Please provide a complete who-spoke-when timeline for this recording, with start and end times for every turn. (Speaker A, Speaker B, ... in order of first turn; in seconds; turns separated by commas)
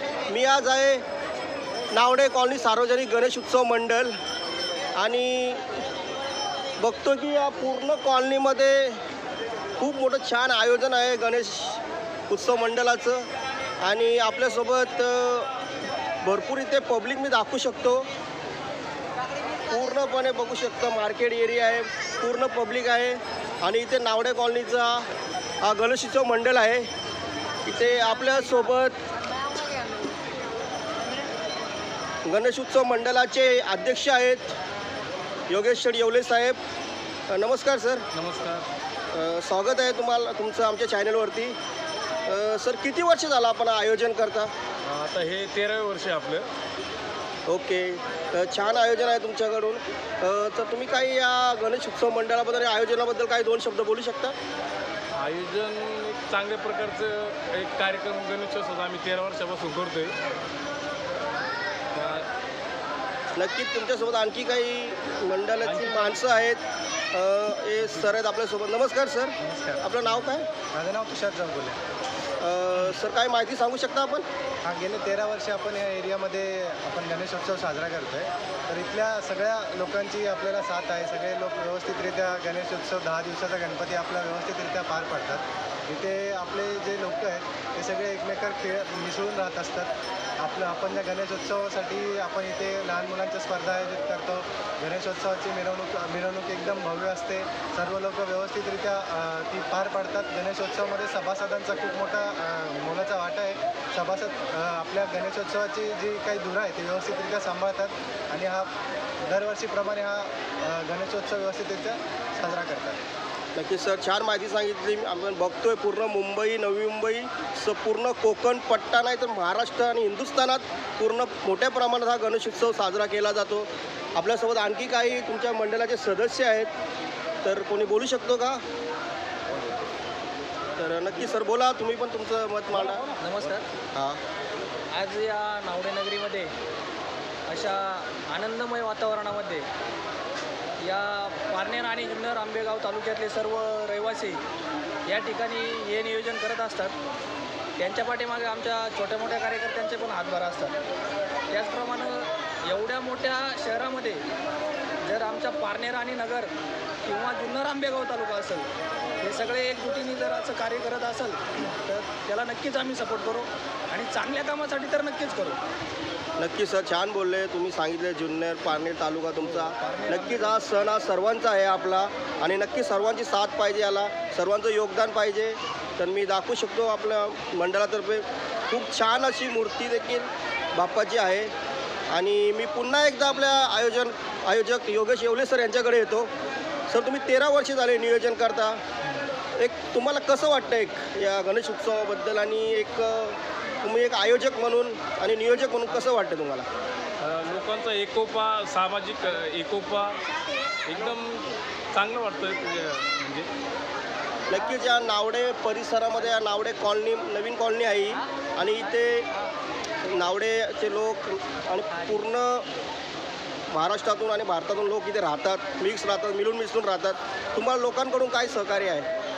Speaker A: 0.3-1.0, Speaker A: 1.9-4.2, Speaker A: 5.0-5.7, Speaker A: 6.8-9.0, Speaker A: 9.8-13.3, Speaker A: 13.8-15.5, Speaker A: 16.2-18.1, Speaker A: 19.7-25.0, Speaker A: 25.6-26.9, Speaker A: 27.6-28.9, Speaker A: 32.2-34.5, Speaker A: 35.5-36.6, Speaker A: 37.3-38.0, Speaker B: 38.1-38.6, Speaker A: 39.1-41.5, Speaker A: 42.2-44.5, Speaker B: 44.8-46.5, Speaker A: 47.5-54.3, Speaker B: 55.1-60.1, Speaker B: 61.9-62.3, Speaker A: 63.4-66.6, Speaker B: 65.6-66.2, Speaker A: 67.1-70.5, Speaker C: 69.4-70.0, Speaker C: 70.7-71.8, Speaker A: 72.4-74.2, Speaker C: 74.6-108.7, Speaker C: 109.2-113.0, Speaker A: 113.5-126.7, Speaker A: 127.4-128.6, Speaker A: 130.8-133.0, Speaker D: 132.7-133.7, Speaker D: 134.9-136.5, Speaker D: 137.5-139.7, Speaker D: 140.8-144.4, Speaker D: 145.1-146.9, Speaker D: 147.8-150.8, Speaker D: 151.5-154.2, Speaker D: 155.1-156.5, Speaker D: 157.0-158.7, Speaker D: 159.2-165.6, Speaker A: 166.4-181.5, Speaker D: 169.4-170.7, Speaker A: 182.1-186.3, Speaker A: 186.9-188.8, Speaker A: 189.6-196.7, Speaker B: 197.2-200.2, Speaker B: 200.8-203.5, Speaker A: 204.5-209.3, Speaker A: 210.1-212.7, Speaker A: 213.7-219.1